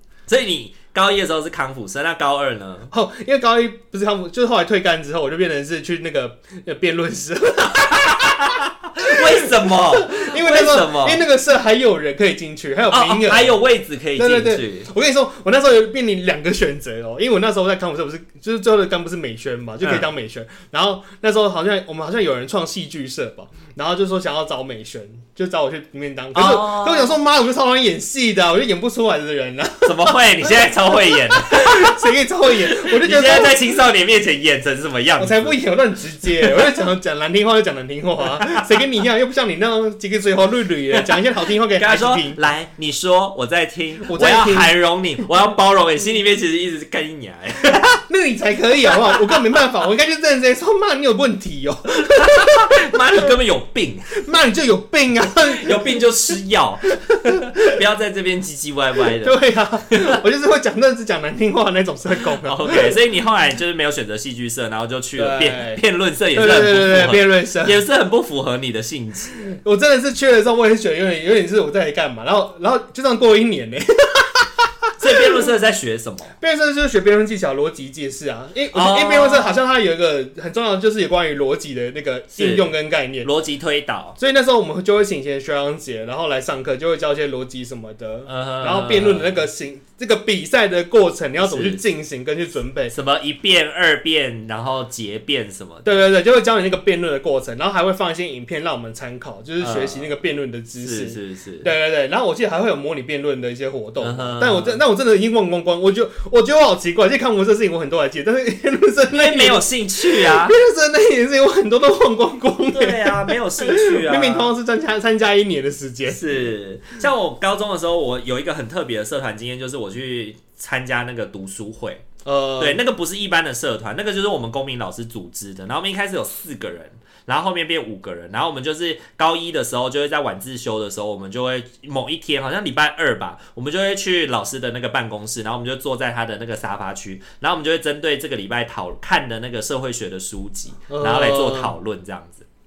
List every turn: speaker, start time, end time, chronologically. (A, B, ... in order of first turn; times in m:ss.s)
0:00.3-0:02.9 A
0:02.9-0:13.6 B
0:08.0-0:11.2 A
0:12.9-0:14.9 A
0:14.2-0:33.6 B
0:26.3-0:27.2 A
0:29.8-0:32.1 A
0:32.8-0:35.6 A
0:35.2-0:42.4 B
0:36.4-0:36.7 A
0:38.4-0:38.8 A
0:40.9-0:41.2 A
0:41.8-0:48.0 A
0:44.0-0:44.7 B
0:47.8-0:53.2 B
0:48.9-0:49.4 A
0:52.0-0:54.2 A
0:54.1-0:56.0 B
0:55.4-0:59.4 A
0:57.1-0:57.7 B
0:59.2-1:02.9 B
1:02.4-1:09.5 A
1:05.2-1:05.8 B
1:06.3-1:07.8 B
1:09.5-1:15.3 B
1:15.0-1:16.3 A
1:16.4-1:23.3 B
1:18.7-1:19.6 A
1:22.4-1:24.2 A
1:24.2-1:32.9 B
1:28.3-1:29.4 A
1:31.4-1:31.8 A
1:32.9-1:35.9 A
1:35.8-1:56.5 B
1:39.6-1:40.1 A
1:40.8-1:41.7 A
1:44.0-1:44.8 A
1:49.1-1:50.5 A
1:52.7-1:54.5 A
1:56.1-2:02.0 A
2:02.2-2:02.8 B
2:02.6-2:22.4 A
2:20.9-2:21.7 B